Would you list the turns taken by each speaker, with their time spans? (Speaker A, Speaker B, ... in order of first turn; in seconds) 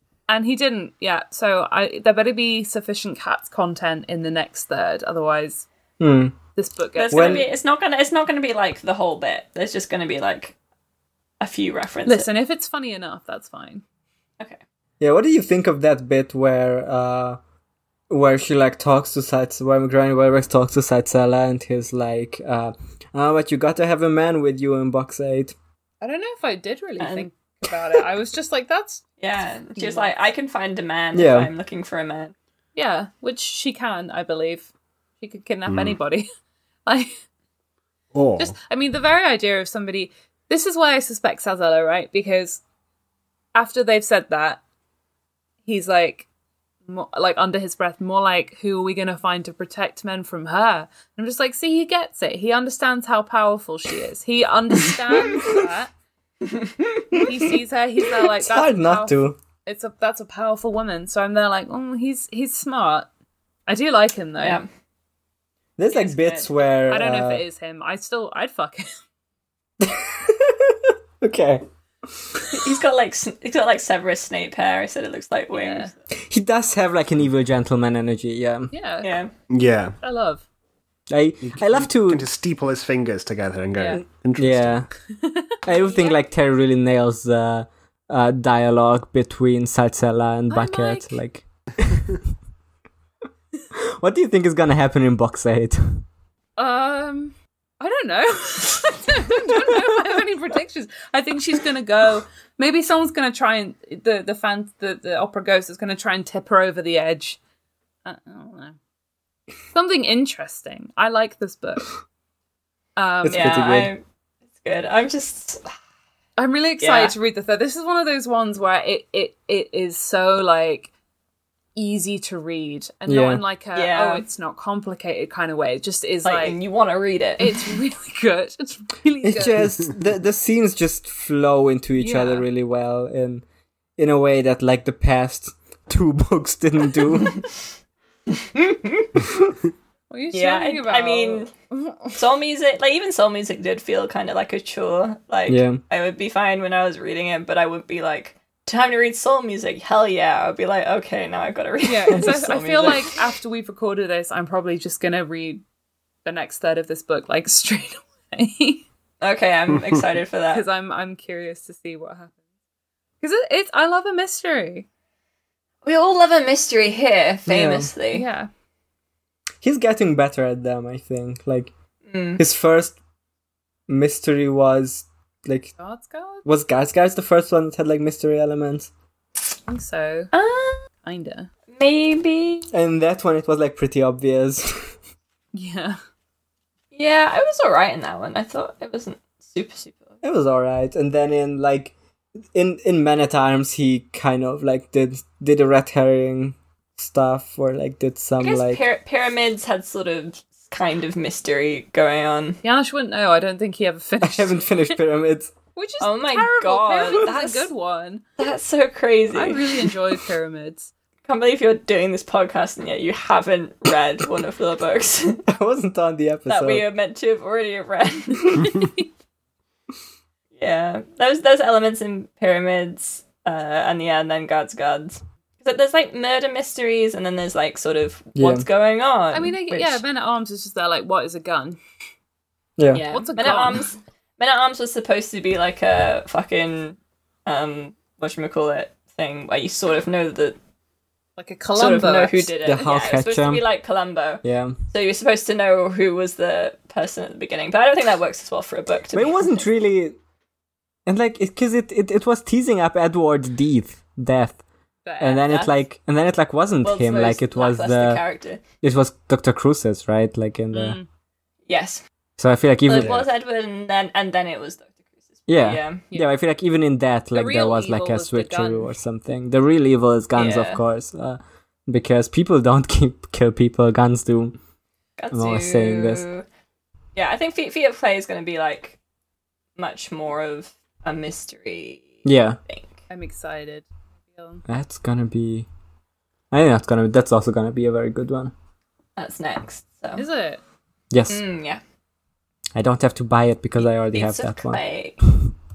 Speaker A: 0.3-5.7, 6.6-7.5, 12.1-13.8, 26.0-29.0, 29.8-30.1, 32.7-34.7, 35.2-36.3, 36.9-37.1, 38.4-42.6, 43.5-44.6, 45.6-46.2, 46.9-55.9, 57.1-63.1, 63.7-64.6, 66.0-68.9, 75.5-75.9, 78.7-79.1, 80.0-80.4, 83.8-84.0, 85.2-86.1, 90.5-91.1, 96.6-107.4, 108.0-108.8, 109.7-111.9, 113.0-113.6, 116.4-120.9, 121.8-126.6, 127.4-129.6, 132.0-132.4, 140.1-142.2, 151.8-155.6, 156.2-158.8, 160.5-162.4, 163.2-164.8, 168.1-168.5, 175.8-176.4, 179.7-180.3, 181.0-181.5, 185.5-186.0, 202.6-204.9, 205.8-208.2, 209.3-210.9, 229.3-231.8, 233.0-233.8, 241.4-242.5, 255.1-255.6, 260.7-261.1, 267.3-268.9, 283.1-284.6, 290.1-290.6
Speaker B: 6.0-6.3, 7.1-7.5, 15.0-17.4, 18.1-25.5, 31.1-31.5, 58.4-59.4, 65.8-67.4, 69.8-71.6, 76.1-78.7, 81.1-82.2, 84.4-84.9, 85.6-92.1, 93.7-96.0, 113.2-113.9, 123.1-123.4, 129.2-133.4, 134.0-137.4, 145.5-145.8, 167.5-167.9, 169.6-171.7, 172.4-172.9, 173.9-175.7, 176.4-178.9, 182.7-184.9, 190.2-191.9, 192.5-198.8, 204.2-205.5, 215.5-216.9, 228.3-228.7, 232.8-233.1, 242.6-243.6, 244.4-244.8, 249.1-250.2, 251.1-254.6, 255.2-258.2, 258.8-261.0, 262.4-263.2, 265.5-274.6, 275.3-276.3, 282.2-282.6, 284.7-285.7, 286.5-288.5, 291.1-291.4, 292.7-294.8
Speaker C: 7.0-10.5, 11.4-12.3, 27.0-27.3, 29.2-32.3, 64.4-64.7, 72.5-75.9, 79.0-79.3, 113.3-114.0, 114.6-115.7, 116.8-117.1, 123.7-124.2, 126.2-127.7, 138.5-138.9, 140.3-141.5, 142.1-153.2, 159.2-160.6, 165.8-168.2, 172.1-172.4, 180.3-180.8, 181.7-182.7, 186.9-190.1, 198.4-202.6, 206.0-207.7, 208.4-209.8, 211.3-215.4, 216.5-218.9, 220.6-230.0, 233.3-240.6, 241.8-249.6, 256.8-258.6, 261.7-262.0, 262.8-266.0, 270.4-270.8, 275.2-276.4, 277.1-279.0, 279.8-282.9, 289.2-290.2, 291.3-291.8, 293.8-295.2
Speaker D: 35.7-36.0, 38.1-38.5, 79.5-79.9, 81.4-84.8